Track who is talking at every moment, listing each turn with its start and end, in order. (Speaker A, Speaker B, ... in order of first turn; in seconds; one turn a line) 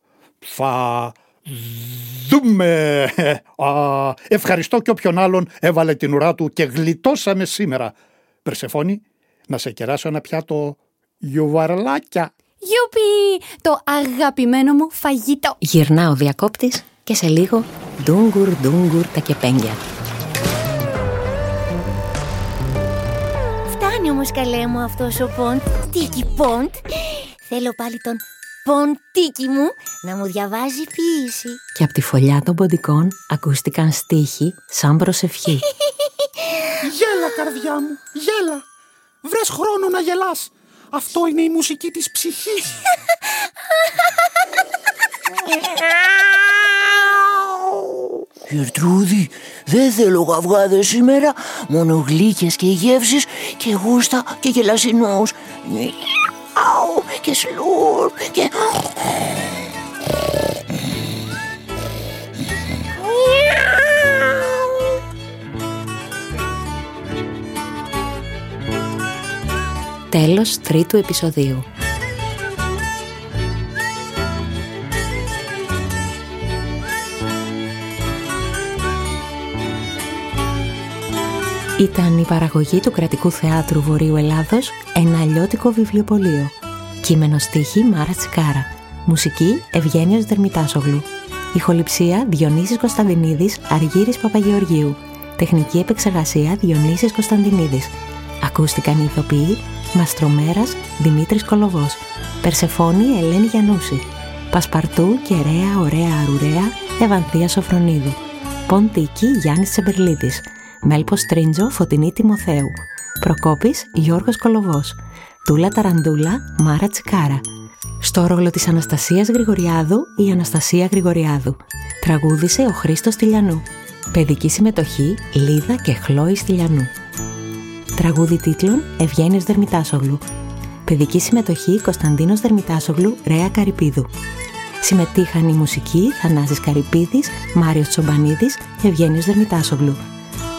Speaker A: 0.4-12.3
Speaker B: 12.6-15.6
Speaker C: 15.6-19.8
Speaker D: 23.6-26.8
Speaker D: 27.4-31.6
Speaker C: 31.8-35.7
Speaker E: 36.8-38.6
Speaker E: 39.2-42.8
Speaker F: 48.5-59.3
Speaker D: 63.0-63.4
Speaker C: 70.1-71.7
Speaker C: 81.8-117.4
Speaker C: 118.0-126.9
Speaker C: 128.0-130.2
Speaker C: 130.8-134.1
Speaker C: 134.8-140.0